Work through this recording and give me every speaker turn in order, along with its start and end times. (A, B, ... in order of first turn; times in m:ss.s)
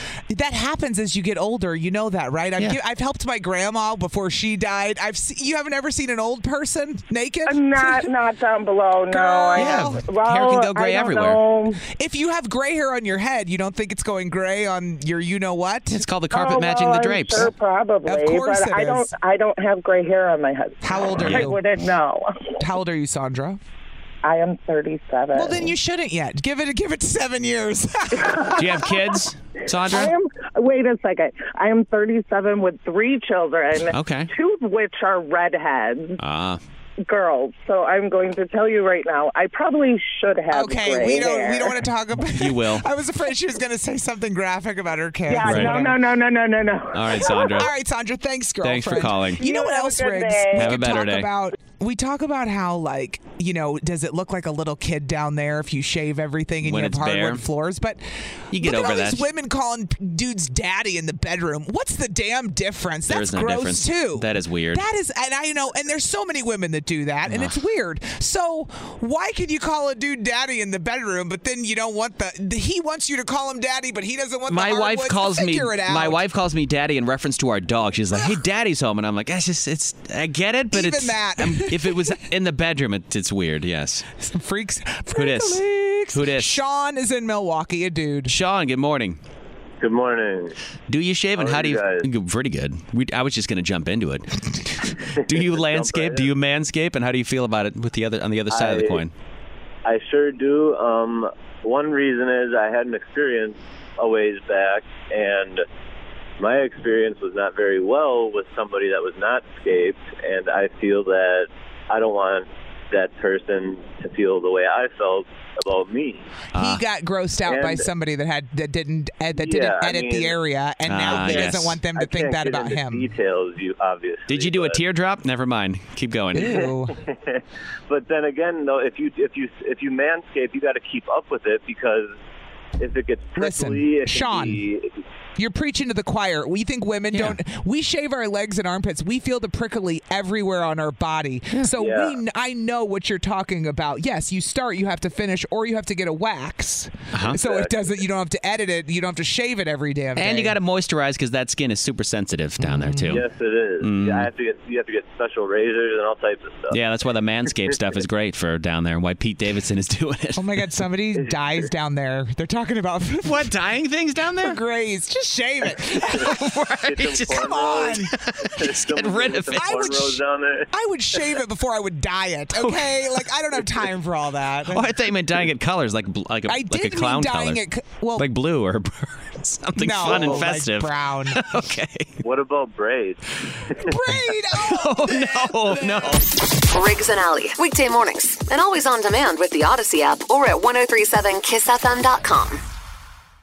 0:00.3-0:08.1 A
0:07.5-0:11.8 B
0:09.1-0:10.0 A
0:09.6-0:11.4 C
0:11.9-0:16.1 A
0:15.9-0:17.5 C
0:16.3-0:22.5 B
0:18.0-0:19.1 A
0:20.8-0:21.6 A
0:21.2-0:21.6 C
0:22.6-0:23.6 A
0:24.2-0:25.7 B
0:25.3-0:28.9 A
0:28.6-0:30.1 C
0:29.9-0:36.2 B
0:33.9-0:34.3 C
0:36.2-0:36.6 C
0:37.0-0:41.8 B
0:40.5-0:46.0 A
0:42.4-0:42.9 C
0:45.3-0:47.3 B
0:45.4-0:45.8 C
0:46.9-0:47.7 C
0:47.2-1:16.2 A
0:48.6-0:49.4 C
0:49.4-0:50.6 B
0:50.5-0:51.3 C
0:56.6-0:57.4 C
0:58.5-0:59.3 C
1:03.1-1:04.8 C
1:14.5-1:24.0 C
1:20.7-1:22.2 A
1:24.2-1:28.3 A
1:25.1-1:26.6 C
1:28.3-1:29.2 C
1:29.8-1:30.6 D
1:30.9-1:39.1 C
1:31.4-1:32.1 D
1:35.3-1:36.3 D
1:38.5-1:39.1 D
1:39.8-1:45.6 D
1:46.4-1:56.2 D
1:56.5-1:56.8 C
1:56.5-2:03.1 A
1:57.5-1:57.8 D
1:59.4-2:00.4 D
2:00.9-2:01.8 C
2:01.9-2:04.8 D
2:04.3-2:06.7 C
2:06.3-2:07.0 A
2:07.0-2:12.1 D
2:12.8-2:15.0 D
2:13.4-2:14.6 A
2:15.4-2:30.6 A
2:17.1-2:17.4 C
2:21.8-2:22.2 D
2:27.1-2:27.4 C
2:27.4-2:27.7 D
2:30.2-2:33.2 C
2:32.6-2:33.2 A
2:33.1-2:36.8 D
2:33.8-2:34.3 C
2:36.7-2:40.6 C
2:40.4-2:43.5 A
2:43.2-2:44.6 C
2:44.4-2:46.4 A
2:45.7-2:50.0 C
2:46.8-2:50.7 D
2:47.2-2:48.1 A
2:49.5-2:54.9 A
2:52.6-2:53.2 C
2:54.7-2:57.6 C
2:56.5-2:58.3 A
2:58.2-3:02.2 C
2:59.8-3:01.5 A
3:02.2-3:03.2 D
3:03.8-3:06.2 A
3:04.1-3:06.2 C
3:06.6-3:12.6 E